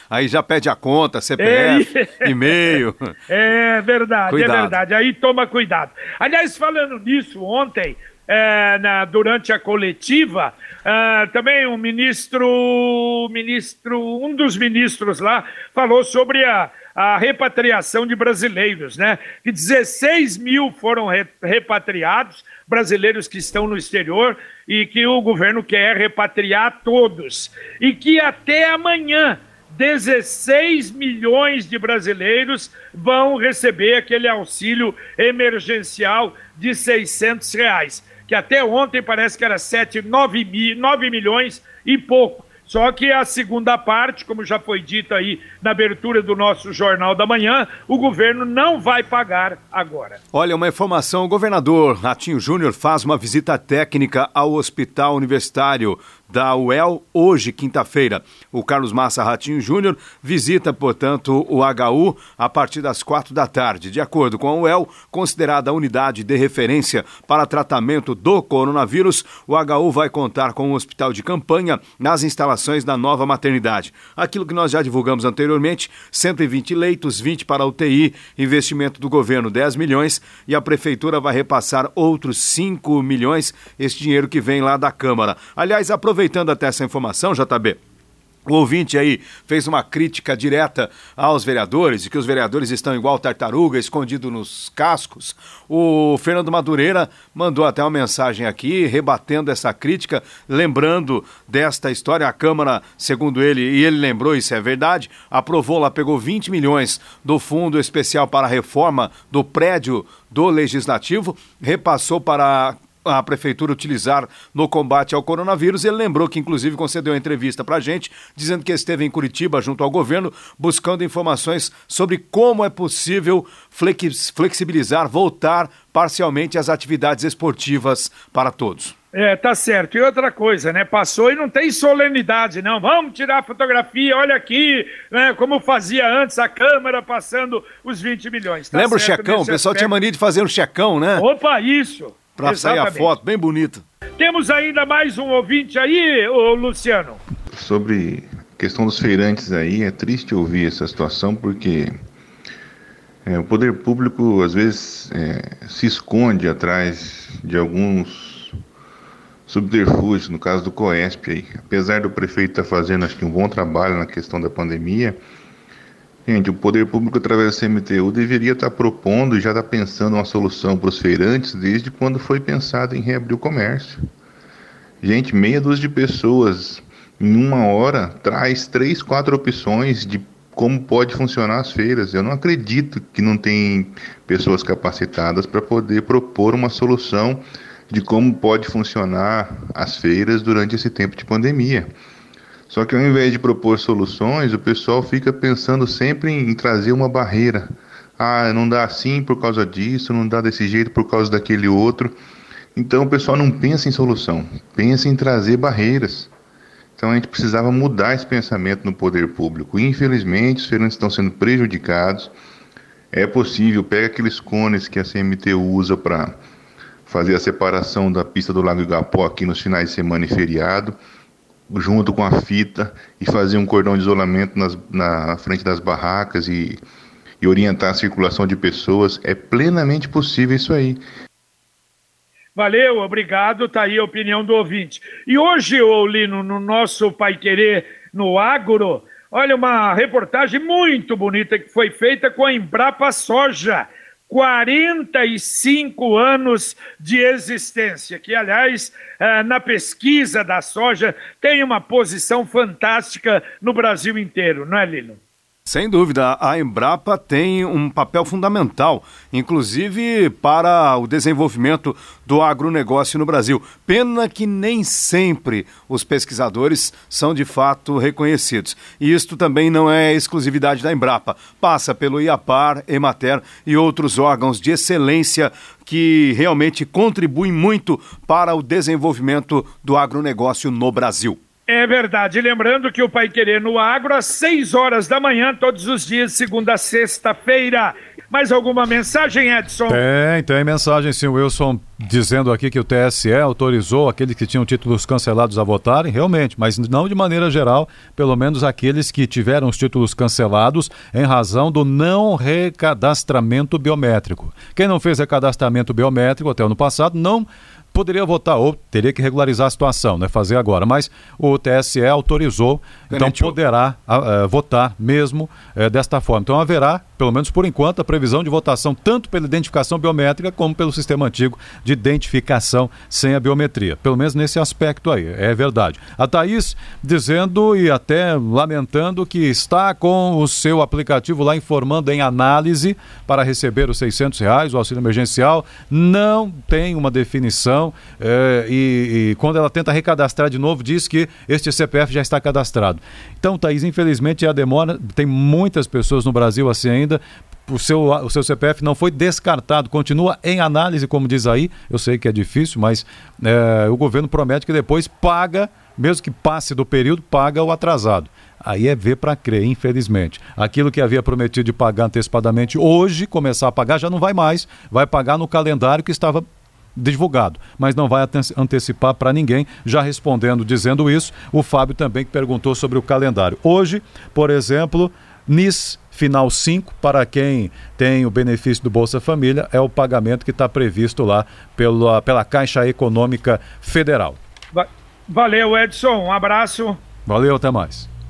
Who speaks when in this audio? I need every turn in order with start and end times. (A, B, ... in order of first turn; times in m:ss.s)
0:00.1-0:03.1 A
0:01.4-0:50.2 B
0:04.3-0:04.8 A
0:50.3-1:27.8 A
1:28.4-2:08.9 A
2:09.1-2:19.9 B
2:18.7-2:21.3 A
2:21.2-2:23.1 B
2:22.4-2:23.8 A
2:24.2-2:27.2 B
2:27.5-2:31.9 C
2:33.2-2:38.5 C
2:39.5-2:45.2 C
2:46.2-2:54.0 C
2:55.0-3:11.9 C
3:12.7-3:17.7 C
3:18.2-3:22.1 C
3:22.8-3:26.3 C
3:27.0-3:32.3 C
3:33.1-3:36.4 C
3:37.1-3:41.0 C
3:41.7-3:46.8 C
3:47.4-3:51.0 C
3:52.6-4:15.2 B
4:15.6-4:41.4 A
4:41.7-4:50.0 B
4:49.9-6:24.4 D
5:13.1-5:13.5 A
6:24.7-6:27.0 B
6:27.2-6:28.1 D